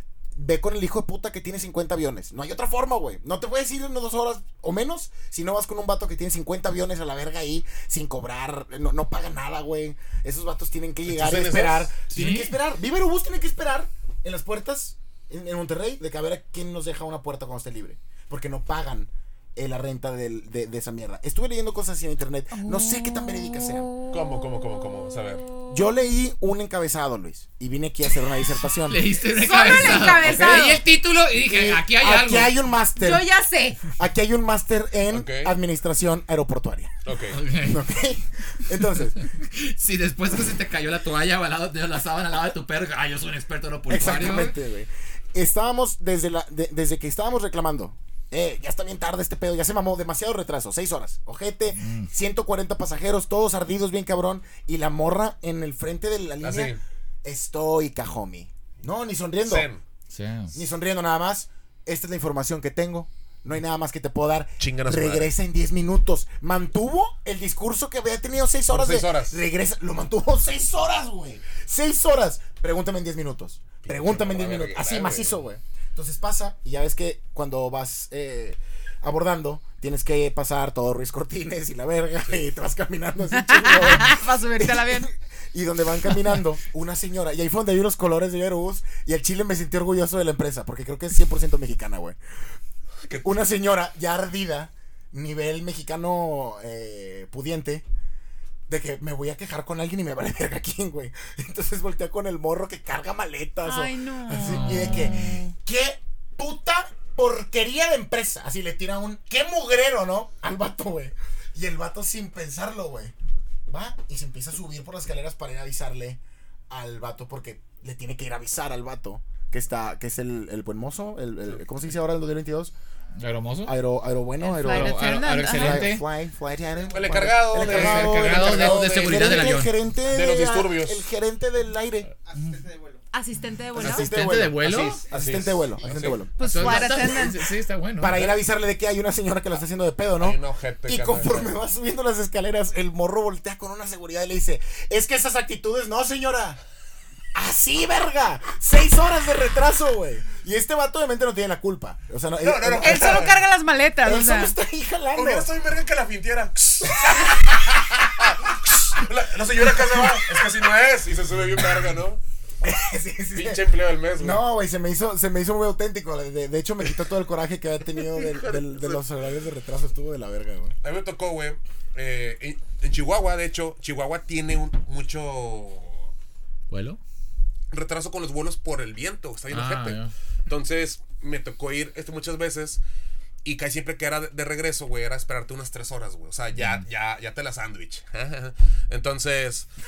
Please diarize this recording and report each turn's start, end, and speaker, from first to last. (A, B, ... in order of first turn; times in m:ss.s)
0:00.4-0:23.9 A
0:11.1-0:11.9 B
0:12.1-0:12.5 C
0:22.6-0:25.8 D
0:24.1-0:25.5 B
0:25.7-0:29.1 A
0:28.9-0:32.6 C
0:29.3-0:30.8 D
0:30.1-0:30.8 A
0:31.3-0:33.3 A
0:33.0-0:33.8 D
0:33.9-0:36.9 A
0:35.1-0:35.6 B
0:37.0-0:37.4 B
0:37.3-0:37.8 C
0:37.6-0:39.2 A
0:39.4-0:44.6 C
0:43.9-0:59.7 A
0:51.8-0:52.1 C
0:56.4-0:56.8 B
0:59.4-0:59.8 B
1:00.1-1:00.6 C
1:00.5-1:32.2 A
1:04.6-1:05.3 B
1:08.7-1:09.4 B
1:13.8-1:15.4 B
1:23.3-1:25.1 D
1:33.1-1:33.5 B
1:33.2-1:37.8 A
1:38.7-1:53.1 A
1:43.6-1:45.5 D
1:44.4-1:45.4 C
1:53.7-1:56.2 A
1:56.7-2:02.7 A
2:03.1-2:03.4 E
2:03.2-2:03.8 C
2:03.6-2:12.1 A
2:04.4-2:05.9 D
2:04.6-2:06.0 C
2:06.7-2:07.6 E
2:06.9-2:11.1 B
2:07.6-2:09.7 C
2:12.2-2:13.1 E
2:13.1-2:14.1 D
2:13.8-2:17.0 A
2:13.8-2:15.0 C
2:14.6-2:16.2 B
2:14.9-2:16.1 E
2:16.4-2:17.6 D
2:16.4-2:18.3 C
2:18.0-2:26.6 A
2:18.0-2:18.4 B
2:20.2-2:21.6 B
2:27.3-2:33.2 A
2:32.4-2:33.4 B
2:32.8-2:34.6 D
2:34.0-2:35.5 A
2:35.1-2:42.2 B
2:37.0-2:38.5 A
2:39.8-2:40.2 A
2:42.6-2:43.6 A
2:43.3-2:44.4 B
2:44.2-2:50.8 A
2:48.0-2:49.0 B
2:50.8-2:56.1 B
2:56.7-2:57.0 C
2:57.7-3:02.8 B
2:59.5-3:00.1 C
3:03.4-3:09.7 B
3:06.6-3:06.8 C